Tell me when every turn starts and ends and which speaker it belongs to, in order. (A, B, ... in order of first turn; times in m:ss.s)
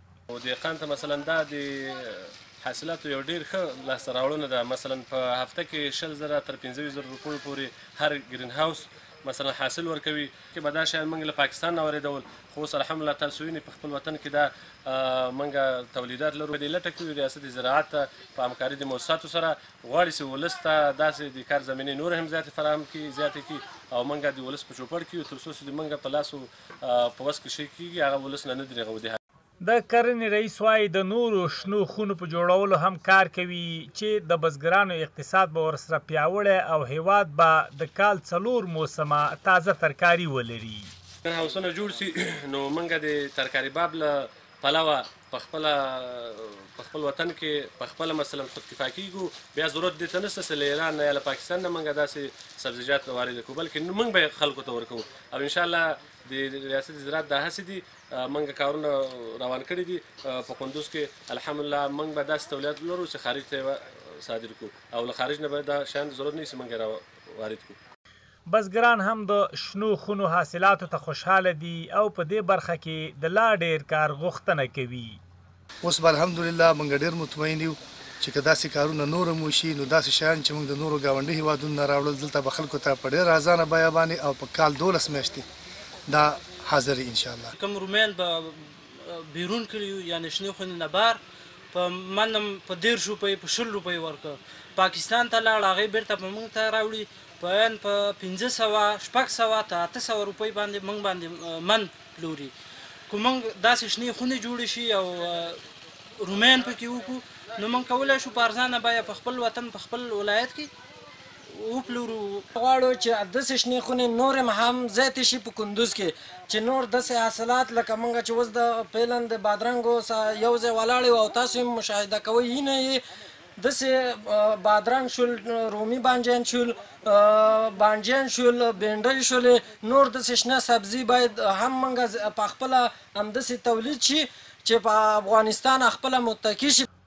0:00.3-0:29.2 A
0:29.6-0:40.9 B
0:41.2-1:07.8 A
1:08.5-1:15.2 B
1:15.8-1:25.5 C
1:26.1-1:27.5 C
1:27.5-1:31.2 D
1:31.7-1:42.5 D
1:43.1-1:45.6 D
1:46.2-1:50.7 D
1:51.5-1:52.5 D
1:52.6-2:03.0 E
2:03.6-2:16.9 E